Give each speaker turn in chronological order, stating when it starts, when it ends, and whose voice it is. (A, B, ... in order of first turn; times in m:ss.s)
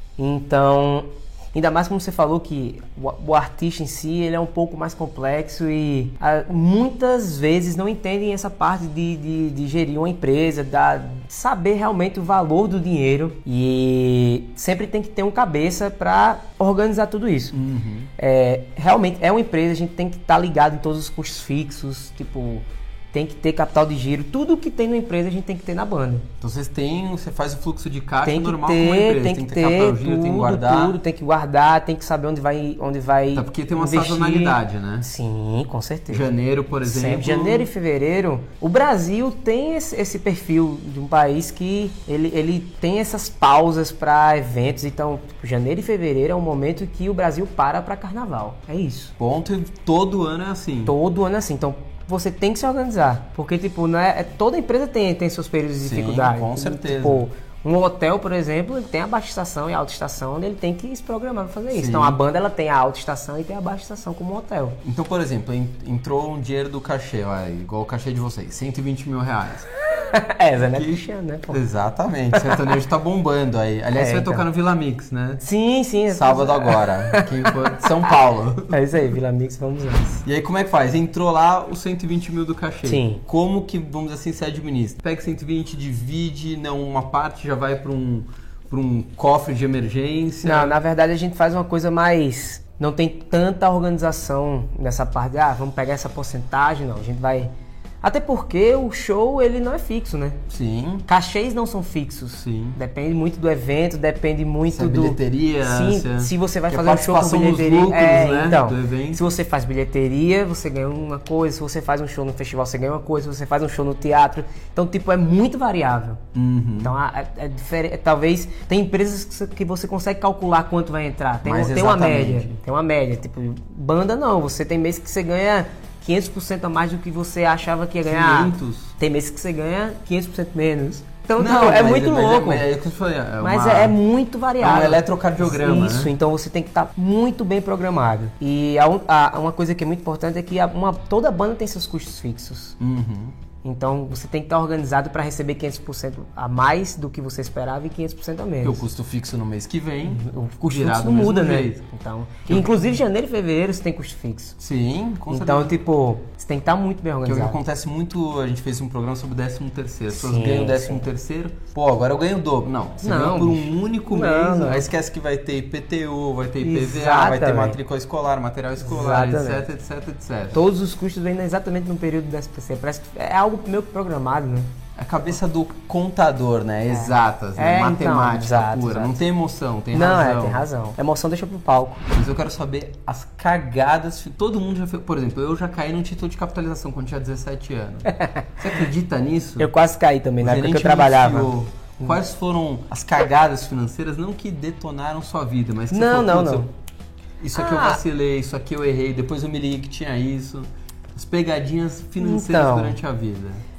0:00.2-0:17.5 A
0:17.5-0:18.1 B
0:18.2-0:26.2 A
0:26.4-0:31.0 B
0:28.2-0:36.3 A
0:33.3-0:35.1 B
0:36.1-0:37.7 B
0:36.8-0:49.1 A
0:49.2-0:50.9 B
0:50.8-1:04.8 A
0:55.8-0:57.2 B
1:01.7-1:02.2 B
1:04.8-1:09.7 B
1:10.0-1:11.6 A
1:10.7-1:15.4 B
1:12.3-1:12.6 A
1:13.9-1:14.4 A
1:15.4-1:17.4 A
1:16.1-1:18.8 B
1:18.7-1:20.2 A
1:20.2-1:30.8 B
1:22.8-1:23.2 A
1:30.4-1:40.4 A
1:40.5-1:41.0 B
1:41.1-1:56.2 A
1:42.4-1:42.8 B
1:44.7-1:49.2 B
1:56.3-1:57.0 B
1:56.8-2:12.7 A
2:01.4-2:02.6 B
2:08.0-2:08.9 B
2:11.4-2:14.0 B
2:13.4-2:22.8 A
2:14.6-2:16.1 B
2:22.8-2:23.4 B
2:23.6-2:28.8 A
2:28.6-2:31.8 B
2:30.0-2:34.6 A
2:32.5-2:33.0 B
2:34.6-2:35.7 B
2:35.3-2:37.6 A
2:37.2-2:50.6 B
2:40.1-2:41.0 A
2:43.0-2:44.9 A
2:46.6-2:47.8 A
2:48.8-2:49.7 A
2:50.5-2:54.7 A
2:55.0-3:00.6 B
2:56.9-2:59.2 A
2:59.9-3:02.0 A
3:02.1-3:09.7 B
3:08.2-3:08.8 A
3:09.6-3:12.2 A
3:10.4-3:16.7 B
3:15.9-3:16.7 A
3:17.4-3:23.6 B
3:17.5-3:18.0 A
3:22.2-3:23.0 A